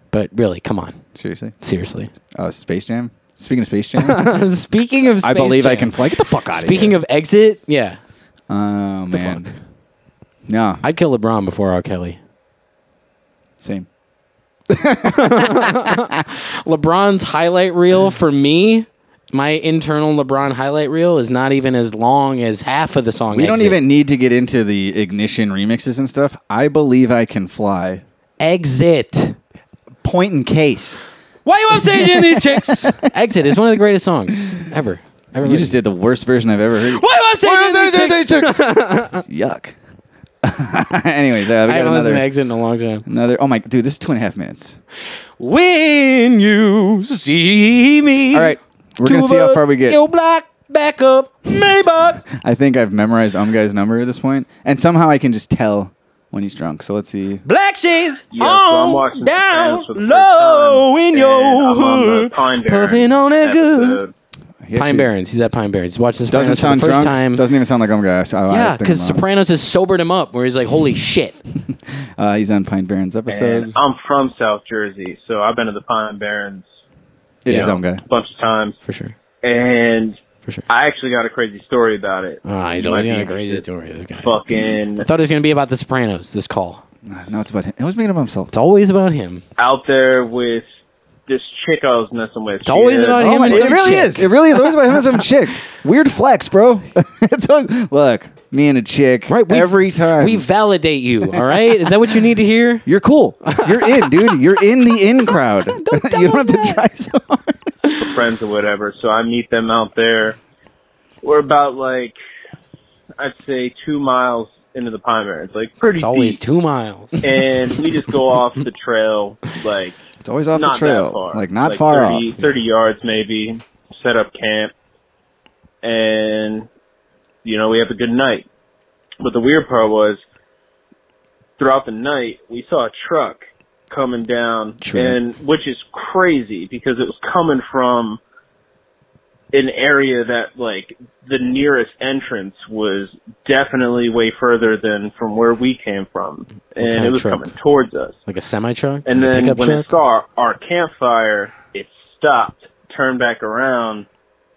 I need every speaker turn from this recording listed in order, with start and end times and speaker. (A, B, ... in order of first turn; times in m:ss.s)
0:00.1-0:01.0 A
0:01.2-0:01.5 B
0:01.6-0:02.1 A
0:02.3-0:04.3 B
0:04.0-0:08.0 A
0:05.2-0:07.0 B
0:08.5-0:09.5 B
0:09.1-0:09.5 A
0:10.5-0:10.8 B
0:10.8-0:12.2 A
0:13.6-0:13.9 B
0:14.7-0:15.9 B
0:15.0-0:23.8 A
0:23.3-0:28.0 B
0:28.4-0:29.4 A
0:30.0-0:31.0 B
0:31.4-0:35.8 A
0:31.7-0:32.9 B
0:35.4-0:38.6 B
0:36.9-0:39.2 A
0:39.2-0:39.7 B
0:40.4-0:42.2 B
0:41.6-0:43.0 A
0:43.0-0:44.8 B
0:45.4-0:52.2 A
0:48.3-0:50.0 B
0:52.3-0:57.4 B
0:57.4-1:04.0 A
0:58.3-1:04.1 C
1:04.6-1:05.1 B
1:04.7-1:07.4 A
1:06.3-1:09.2 B
1:08.5-1:11.4 A
1:11.7-1:13.7 B
1:13.3-1:16.6 C
1:17.4-1:18.0 B
1:17.5-1:17.8 A
1:17.5-1:18.8 C
1:18.8-1:19.2 A
1:19.4-1:23.6 C
1:22.4-1:26.8 A
1:24.2-1:25.1 C
1:27.0-1:28.5 B
1:28.5-1:29.4 A
1:29.6-1:30.6 C
1:31.3-1:33.8 C
1:32.6-1:35.2 A
1:33.2-1:40.4 B
1:39.3-1:42.9 A
1:41.3-1:41.9 B
1:42.9-1:47.5 B
1:43.5-1:44.4 A
1:45.7-1:46.8 A
1:48.0-1:50.4 C
1:51.2-1:52.2 C
1:53.2-1:56.4 C
1:55.9-1:58.3 A
1:57.2-2:00.0 C
2:00.2-2:02.4 B
2:00.5-2:04.7 C
2:05.8-2:06.7 C
2:07.4-2:08.5 C
2:09.2-2:10.2 C
2:11.6-2:18.2 C
2:14.8-2:15.2 A
2:19.5-2:28.2 C
2:26.8-2:27.5 A
2:28.3-2:30.0 A
2:29.0-2:34.0 C